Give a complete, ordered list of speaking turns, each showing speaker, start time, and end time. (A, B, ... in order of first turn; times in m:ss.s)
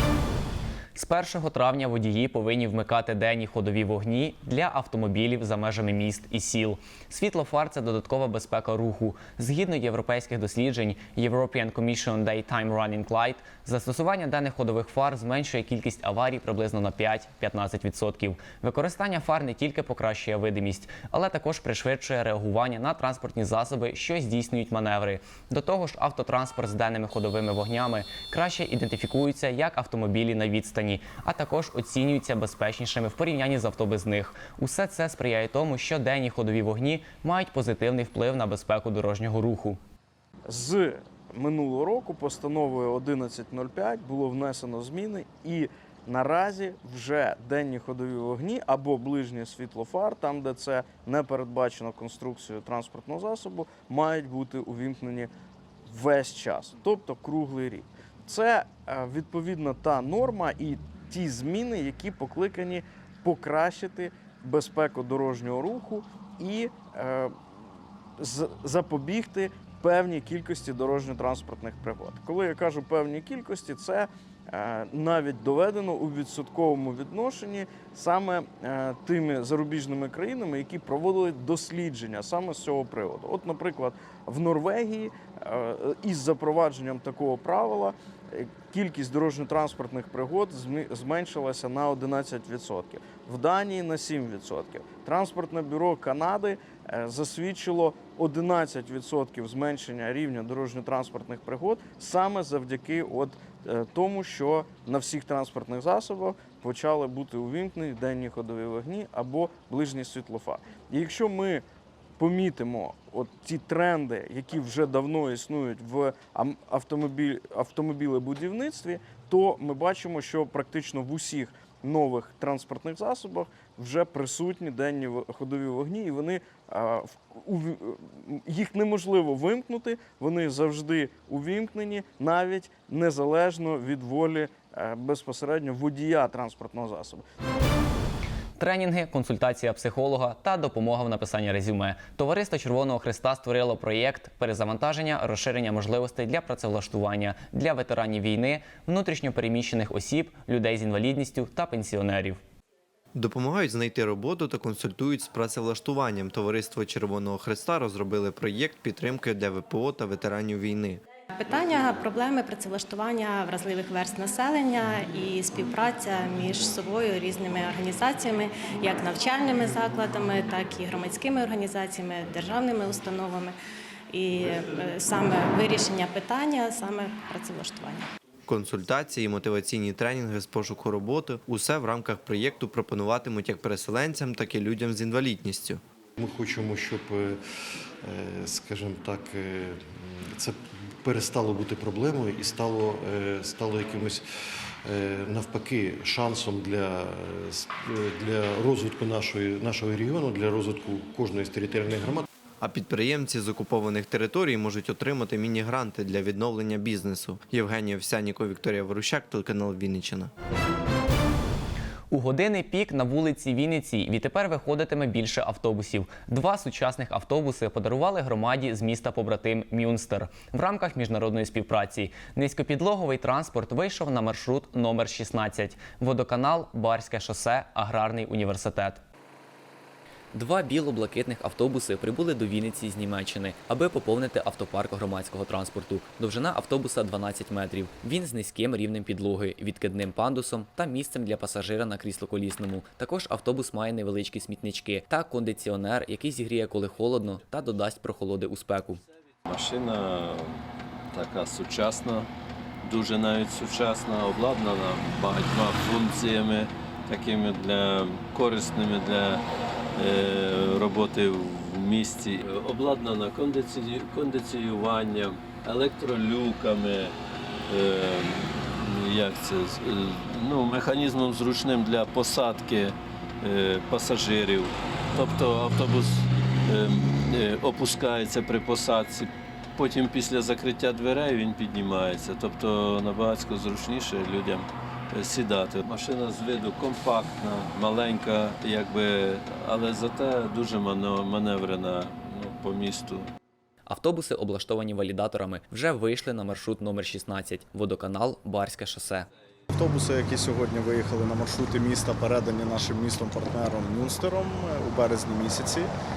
0:01.0-0:39.8 A
0:40.5-0:55.3 B
0:55.9-1:07.3 B
1:08.2-1:51.6 B
1:52.2-2:17.2 B
2:18.6-2:32.4 A
2:33.2-2:41.0 C
2:41.3-2:53.6 D
2:54.1-2:58.1 D
2:58.5-3:05.8 C
3:06.2-3:22.3 E
3:22.6-3:30.3 C
3:32.1-3:49.0 A
3:50.3-4:09.0 A
4:09.5-4:10.6 F
4:11.1-4:12.3 F
4:12.8-4:19.4 F
4:20.0-4:27.2 F
4:27.7-4:53.3 F
4:53.9-4:59.3 A
4:59.7-5:05.9 G